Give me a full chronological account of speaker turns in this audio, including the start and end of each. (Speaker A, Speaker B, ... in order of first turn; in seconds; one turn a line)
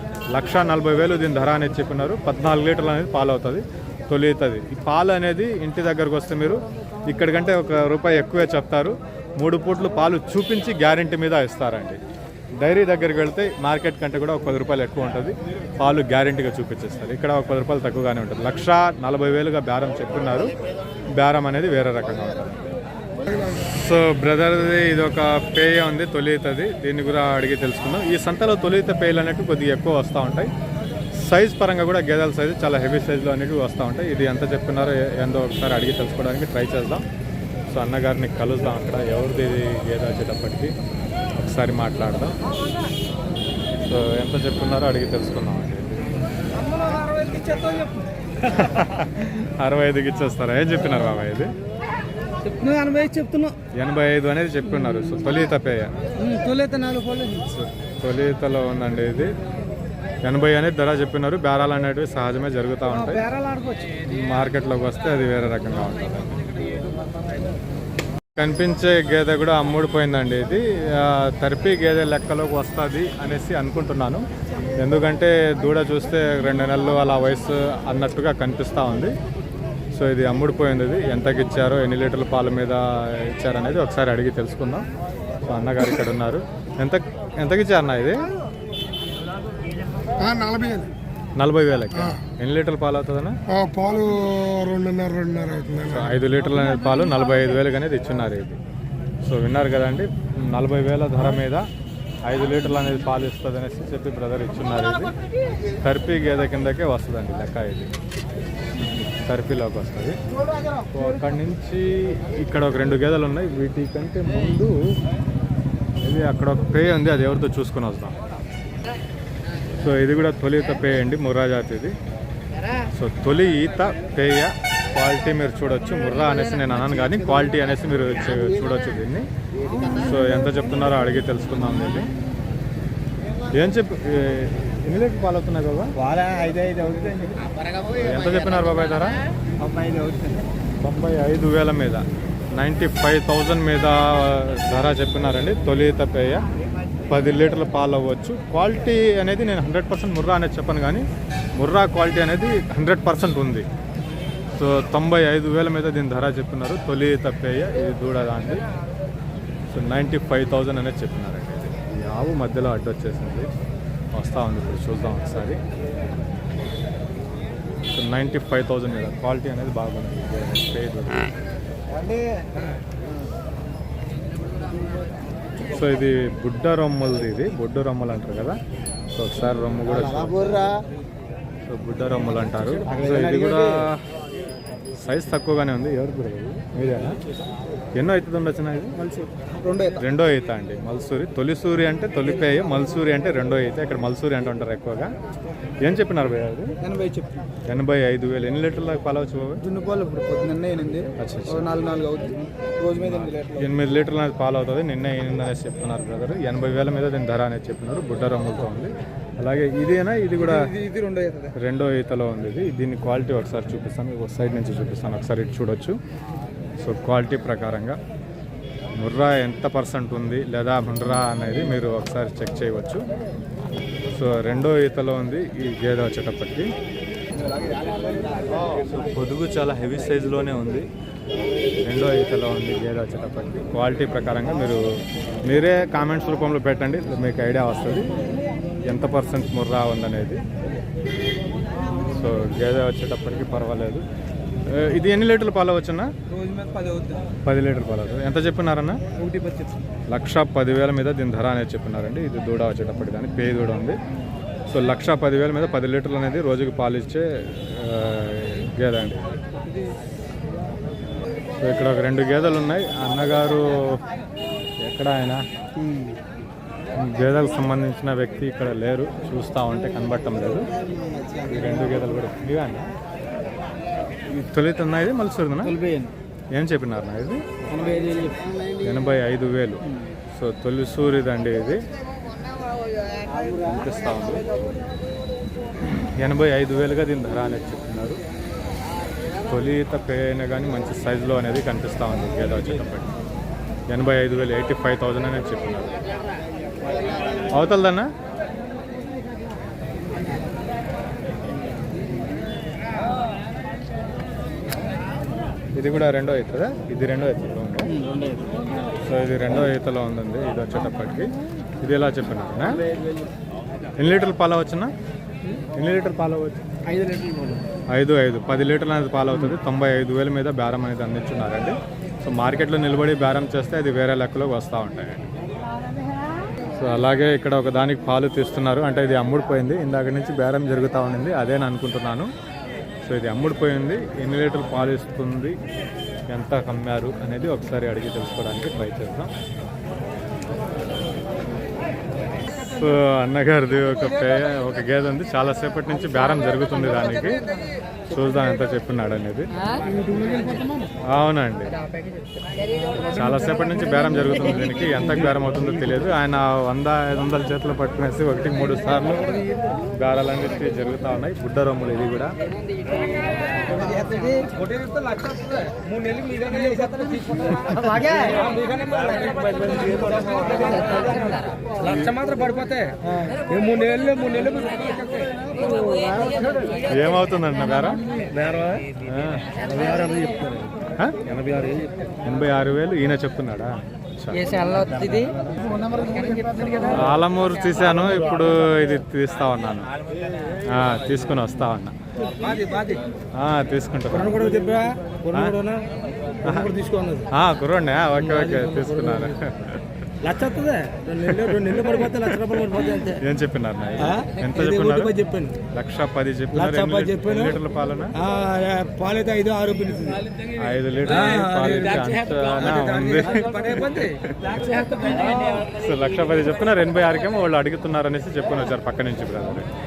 Speaker A: 0.3-12.0
Speaker A: 12.6-20.5
Speaker A: 21.2-22.6
Speaker A: 23.4-30.5
Speaker A: 31.1-37.0
Speaker A: 37.7-40.7
Speaker A: 41.4-42.4
Speaker A: 43.7-46.2
Speaker B: 46.5-48.1
Speaker A: 48.4-51.5
Speaker B: 52.4-53.5
Speaker A: 53.8-55.9
Speaker B: 56.2-57.6
Speaker A: 57.6-59.3
Speaker A: 60.2-63.2
Speaker B: 62.9-64.0
Speaker A: 64.0-66.4
Speaker A: 68.4-74.3
Speaker A: 74.8-79.1
Speaker A: 79.9-84.9
Speaker A: 85.5-88.2
Speaker C: 90.2-90.9
Speaker A: 91.4-93.4
Speaker C: 93.5-95.9
Speaker A: 95.8-98.6
Speaker A: 99.2-101.7
Speaker A: 102.3-105.1
Speaker A: 105.8-107.9
Speaker A: 109.2-110.2
Speaker A: 110.9-114.8
Speaker A: 116.0-118.2
Speaker A: 119.8-122.0
Speaker A: 122.9-129.3
Speaker A: 129.8-132.1
Speaker A: 133.5-135.9
Speaker B: 136.0-137.5
Speaker A: 138.0-139.2
Speaker B: 139.6-140.4
Speaker A: 140.8-142.0
Speaker A: 142.6-146.4
Speaker A: 147.1-151.1
Speaker A: 151.6-153.7
Speaker A: 154.5-158.6
Speaker A: 159.7-163.5
Speaker A: 164.1-165.6
Speaker A: 167.9-171.3
Speaker A: 175.7-178.6
Speaker A: 179.1-180.7
Speaker B: 180.3-180.6
Speaker A: 181.7-183.9
Speaker B: 182.8-183.9
Speaker A: 185.0-187.2
Speaker A: 188.0-189.0
Speaker B: 189.0-190.0
Speaker A: 190.0-195.1
Speaker A: 195.8-196.7
Speaker B: 196.8-197.5
Speaker A: 197.7-199.6
Speaker B: 199.6-203.7
Speaker A: 201.2-201.7
Speaker A: 203.2-210.7
Speaker B: 210.4-211.6
Speaker A: 211.6-216.0
Speaker A: 216.8-218.0
Speaker A: 219.0-223.0
Speaker A: 224.1-226.7
Speaker B: 227.5-228.7
Speaker A: 228.9-230.9
Speaker A: 231.8-234.8
Speaker A: 235.5-238.2
Speaker A: 238.9-240.4
Speaker A: 242.0-244.0
Speaker A: 244.7-246.1
Speaker B: 246.3-247.3
Speaker A: 247.4-249.0
Speaker B: 249.2-249.8
Speaker A: 250.1-254.0
Speaker A: 254.7-259.4
Speaker A: 261.6-264.0
Speaker A: 264.8-265.4
Speaker B: 265.8-266.2
Speaker A: 267.0-270.7
Speaker B: 271.0-271.7
Speaker A: 271.5-272.9
Speaker A: 274.3-275.8
Speaker B: 275.6-276.1
Speaker A: 276.5-277.4
Speaker B: 277.6-278.5
Speaker A: 278.8-281.8
Speaker A: 283.6-284.4
Speaker A: 285.8-288.2
Speaker A: 289.4-293.1
Speaker A: 293.9-295.9
Speaker A: 297.5-298.1
Speaker A: 305.8-307.9
Speaker B: 307.9-308.7
Speaker A: 309.0-312.8
Speaker B: 312.9-313.3
Speaker A: 314.0-314.9
Speaker A: 315.8-316.6
Speaker B: 316.9-317.6
Speaker A: 317.9-325.3
Speaker A: 326.7-332.3
Speaker A: 333.0-335.6
Speaker A: 336.3-339.3
Speaker A: 342.6-347.4
Speaker A: 348.1-349.5
Speaker B: 349.9-350.9
Speaker A: 351.1-351.8
Speaker B: 352.9-353.7
Speaker A: 353.1-359.4
Speaker A: 360.0-362.3
Speaker B: 363.5-376.8
Speaker A: 371.8-372.1
Speaker A: 376.8-378.0
Speaker B: 378.2-379.0
Speaker A: 379.0-379.5
Speaker B: 379.6-382.1
Speaker A: 382.2-384.4
Speaker B: 384.4-387.1
Speaker A: 386.9-389.9
Speaker A: 390.6-391.9
Speaker B: 392.2-393.0
Speaker A: 393.4-394.4
Speaker B: 394.1-395.9
Speaker B: 396.4-397.3
Speaker A: 397.3-399.9
Speaker B: 398.2-399.4
Speaker B: 400.2-403.2
Speaker A: 401.3-402.3
Speaker A: 403.2-405.1
Speaker B: 404.0-405.6
Speaker A: 405.7-408.1
Speaker B: 406.5-407.6
Speaker B: 408.1-415.7
Speaker A: 410.5-414.1
Speaker A: 415.7-419.7